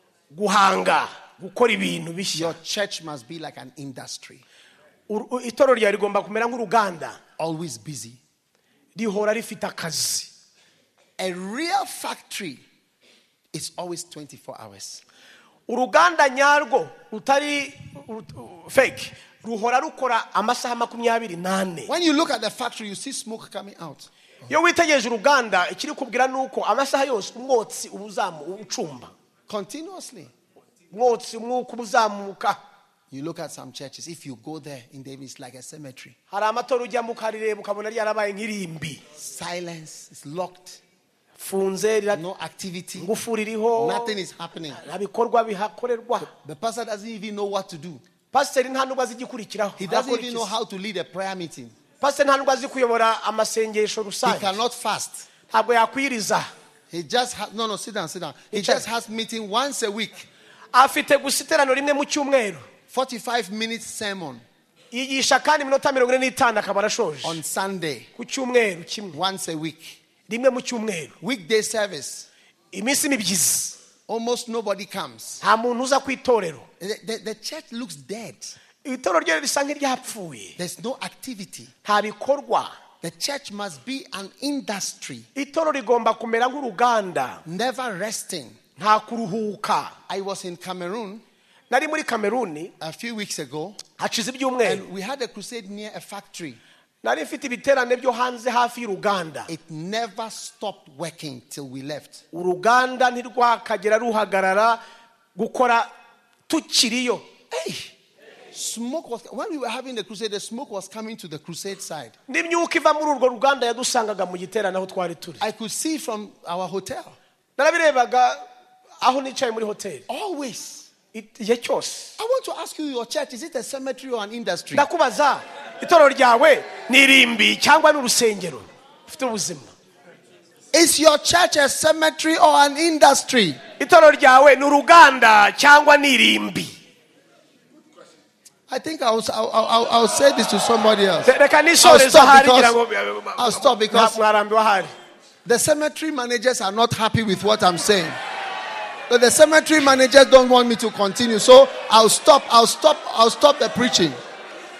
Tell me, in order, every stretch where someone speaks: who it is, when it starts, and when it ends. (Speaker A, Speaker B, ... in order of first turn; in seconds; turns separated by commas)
Speaker A: 0.3-2.5, Speaker B: 2.3-4.4, Speaker A: 5.1-7.2, Speaker B: 7.4-8.2, Speaker A: 8.9-10.3, Speaker B: 11.2-12.6, Speaker B: 13.5-15.0, Speaker A: 15.7-21.9, Speaker B: 21.9-24.1, Speaker A: 24.5-29.1, Speaker B: 29.5-30.3, Speaker A: 30.9-32.6, Speaker B: 33.1-36.1, Speaker A: 36.3-39.0, Speaker B: 39.2-40.8, Speaker A: 41.4-42.2, Speaker B: 42.1-43.1, Speaker A: 43.0-44.1, Speaker B: 43.8-44.8, Speaker A: 44.7-46.3, Speaker B: 46.3-48.0, Speaker A: 48.3-50.5, Speaker B: 49.8-51.8, Speaker A: 52.0-54.6, Speaker B: 54.2-55.3, Speaker A: 55.5-56.5, Speaker B: 56.9-60.3, Speaker A: 58.5-58.8, Speaker A: 60.7-62.6, Speaker B: 62.9-64.4, Speaker A: 64.9-67.4, Speaker B: 67.2-68.1, Speaker A: 68.2-69.2, Speaker B: 69.1-70.0, Speaker A: 70.3-71.1, Speaker B: 71.2-72.3, Speaker A: 72.7-73.8, Speaker B: 74.1-75.4, Speaker A: 75.4-76.7, Speaker B: 76.8-78.6, Speaker A: 78.8-80.5, Speaker B: 80.6-81.7, Speaker A: 81.8-82.7, Speaker B: 83.0-85.3, Speaker A: 85.3-87.4, Speaker B: 87.4-88.6, Speaker A: 88.8-89.9, Speaker B: 90.1-91.2, Speaker A: 91.7-92.7, Speaker B: 92.8-93.8, Speaker A: 94.0-94.9, Speaker B: 94.6-96.6, Speaker A: 97.0-99.5, Speaker B: 99.5-102.2, Speaker A: 102.3-104.8, Speaker A: 105.3-105.9, Speaker A: 106.5-107.2, Speaker B: 107.5-107.9, Speaker B: 108.5-112.1, Speaker A: 112.3-115.4, Speaker B: 115.4-117.2, Speaker A: 117.6-118.4, Speaker A: 119.0-120.0, Speaker B: 120.1-120.9, Speaker A: 121.1-122.1, Speaker B: 122.2-124.8, Speaker A: 124.8-129.7, Speaker B: 130.7-133.6, Speaker A: 133.8-136.7, Speaker B: 138.7-142.8, Speaker A: 141.2-144.9, Speaker B: 143.4-144.2, Speaker B: 145.4-148.2, Speaker B: 149.1-154.2